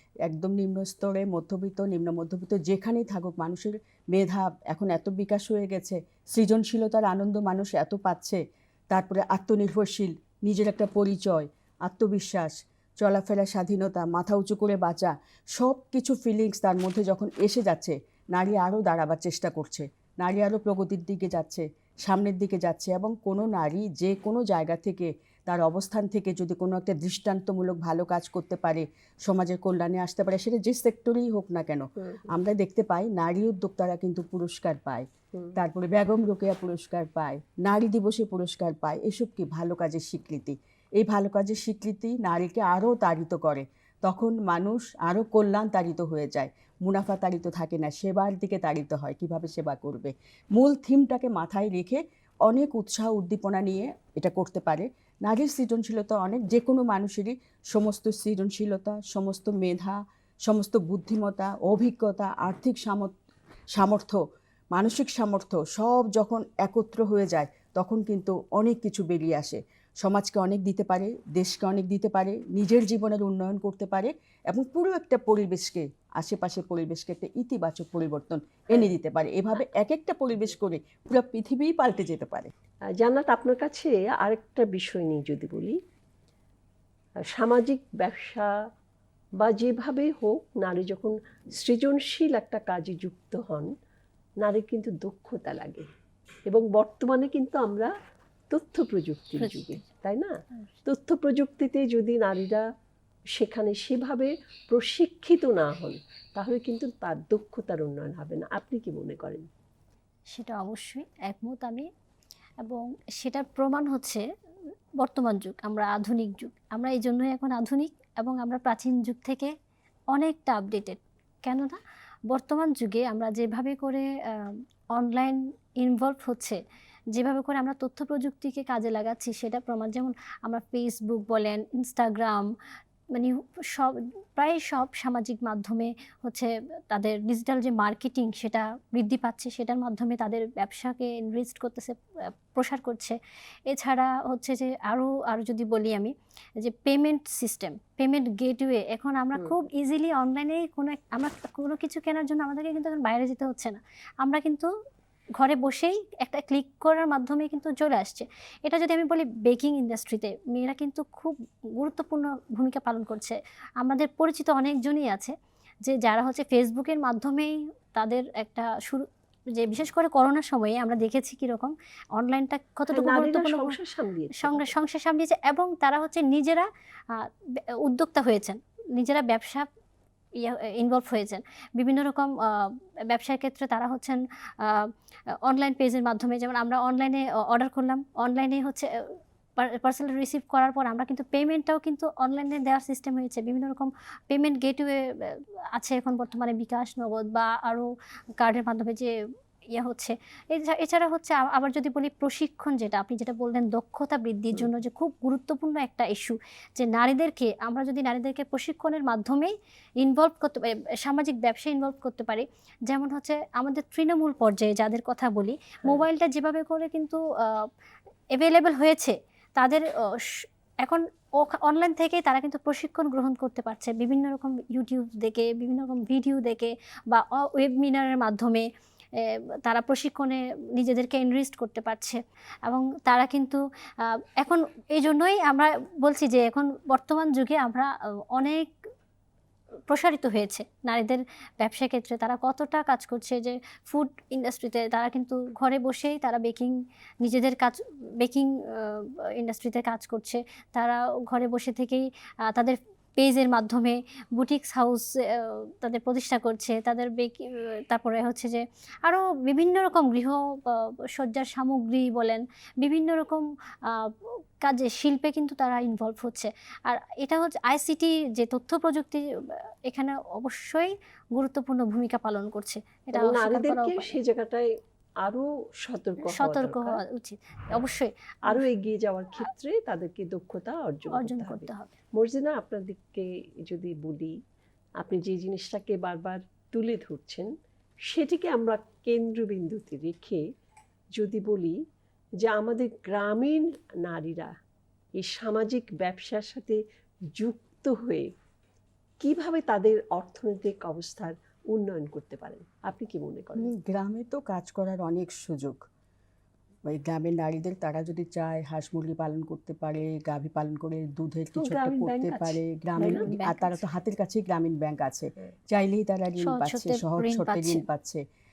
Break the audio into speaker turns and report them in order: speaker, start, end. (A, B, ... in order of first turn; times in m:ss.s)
0:00.2-1:03.1 A
0:32.0-0:32.2 B
1:03.7-1:04.2 A
1:04.7-1:22.5 A
1:23.0-1:25.8 B
1:27.3-1:28.5 B
1:29.4-1:33.7 B
1:34.4-1:35.9 B
1:36.5-1:37.9 B
1:38.5-1:42.6 B
1:39.4-1:39.8 C
1:43.3-1:49.5 B
1:50.3-1:51.9 C
1:52.6-1:54.2 C
1:55.0-1:59.5 C
2:00.1-2:01.8 C
2:02.3-2:06.6 C
2:07.1-2:12.4 C
2:13.1-2:21.9 C
2:22.5-2:23.2 C
2:23.7-2:34.7 C
2:35.4-2:45.3 C
2:45.8-2:53.7 C
2:52.9-2:54.7 B
2:54.4-2:57.3 C
2:57.8-2:59.7 C
3:00.4-3:04.9 C
3:05.4-3:08.9 C
3:09.6-3:17.9 C
3:18.4-3:19.1 C
3:19.7-3:37.7 C
3:38.3-3:48.7 C
3:49.2-3:58.7 C
3:59.9-4:34.1 C
4:33.1-4:34.7 B
4:35.2-4:37.0 B
4:36.2-4:38.6 C
4:38.5-4:44.4 B
4:41.1-4:41.9 C
4:45.0-4:47.5 B
4:48.0-4:50.4 B
4:51.2-4:51.8 B
4:52.4-4:54.5 B
4:55.2-4:56.8 B
4:57.3-4:58.3 B
4:59.2-5:03.7 B
5:03.6-5:05.8 A
5:06.9-5:18.2 A
5:11.6-5:13.3 B
5:13.0-5:13.8 C
5:16.4-5:17.8 C